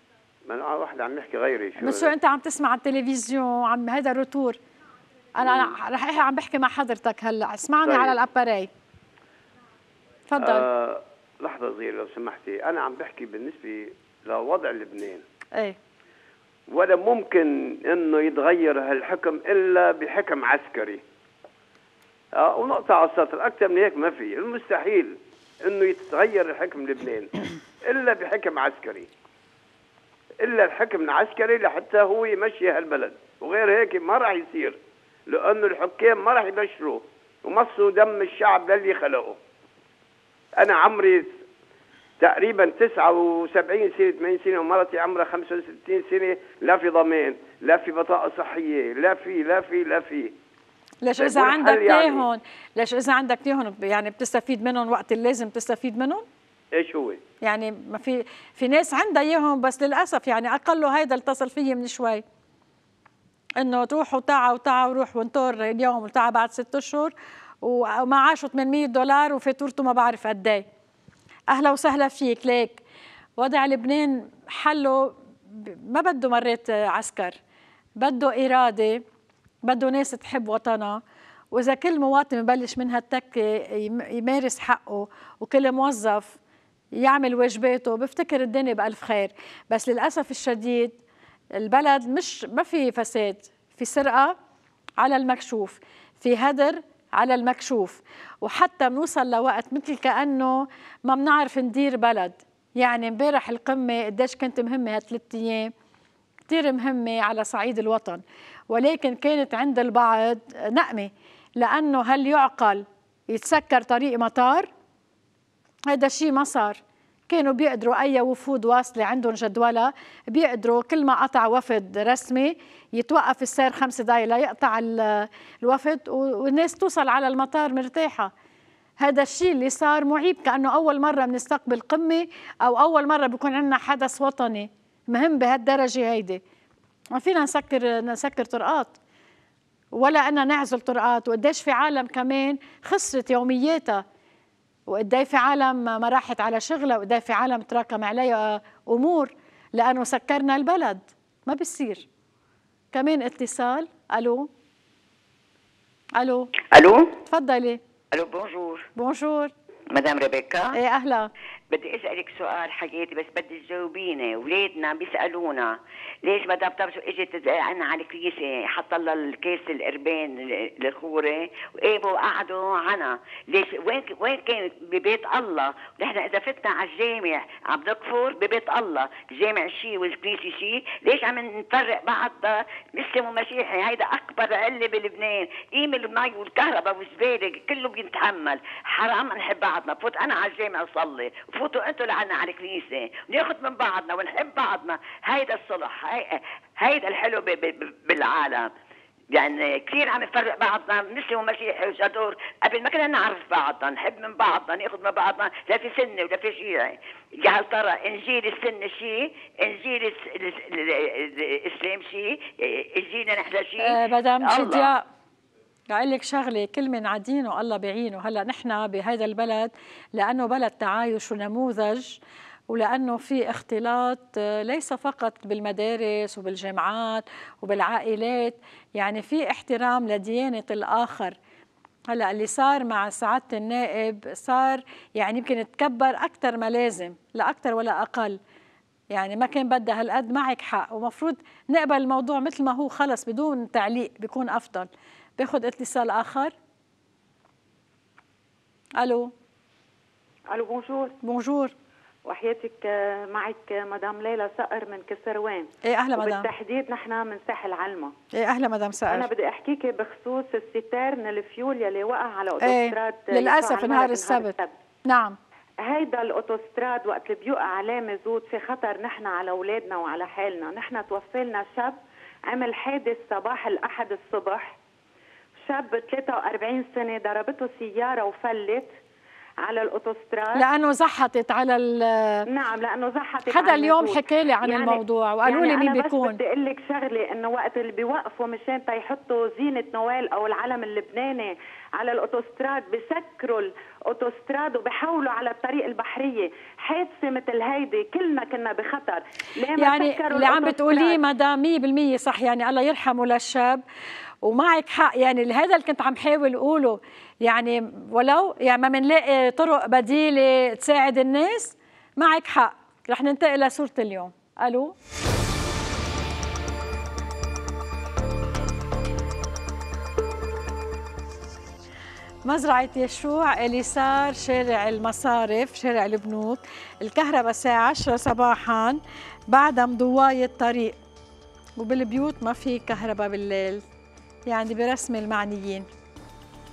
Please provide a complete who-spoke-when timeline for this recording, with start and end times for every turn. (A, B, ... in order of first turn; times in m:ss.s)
0:00.4-0:02.1 A
0:01.8-0:04.6 B
0:05.4-0:08.7 B
0:07.8-0:08.2 A
0:10.3-0:10.6 B
0:10.4-0:15.2 A
0:16.7-0:21.0 A
0:22.3-0:27.3 A
0:27.8-0:29.1 A
0:30.4-0:39.4 A
0:40.6-0:41.3 A
0:42.2-0:50.3 A
0:51.0-0:56.2 B
0:51.2-0:52.2 A
0:56.7-0:57.2 A
0:57.4-1:02.2 B
1:03.6-1:10.6 B
1:11.5-1:12.8 B
1:13.4-1:17.4 B
1:18.0-1:19.0 B
1:19.6-1:21.0 B
1:21.5-1:26.4 B
1:26.9-1:31.0 B
1:31.6-1:34.4 B
1:35.0-1:45.7 B
1:46.5-1:54.7 B
1:55.9-2:08.3 B
2:09.0-2:16.4 B
2:17.1-2:19.0 B
2:19.9-2:24.0 B
2:24.9-2:32.0 B
2:32.9-2:34.5 B
2:36.2-2:36.5 B
2:36.6-2:37.1 C
2:37.3-2:37.8 B
2:38.1-2:38.8 C
2:39.0-2:39.5 B
2:39.9-2:40.8 C
2:40.7-2:41.3 B
2:41.7-3:18.7 C
3:19.3-3:34.9 C
3:33.8-3:35.0 B
3:35.9-3:42.2 B
3:42.7-3:51.4 B
3:52.1-3:58.4 B
3:59.1-4:06.5 B
4:09.0-4:09.3 B
4:10.5-4:11.2 D
4:11.2-4:11.7 B
4:12.2-4:18.1 D
4:15.8-4:16.5 B
4:18.3-4:19.3 B
4:19.1-4:24.7 D
4:22.6-4:24.5 B
4:25.0-4:25.4 B
4:25.8-4:32.0 D
4:32.5-4:34.8 D
4:35.7-4:38.9 D
4:39.6-4:40.6 D
4:40.5-4:42.5 B
4:42.5-5:01.2 D
4:43.5-4:46.4 B
4:59.8-5:03.8 B
5:04.4-5:14.9 B
5:22.4-5:31.0 B
5:31.8-5:33.8 B
5:34.5-5:35.9 B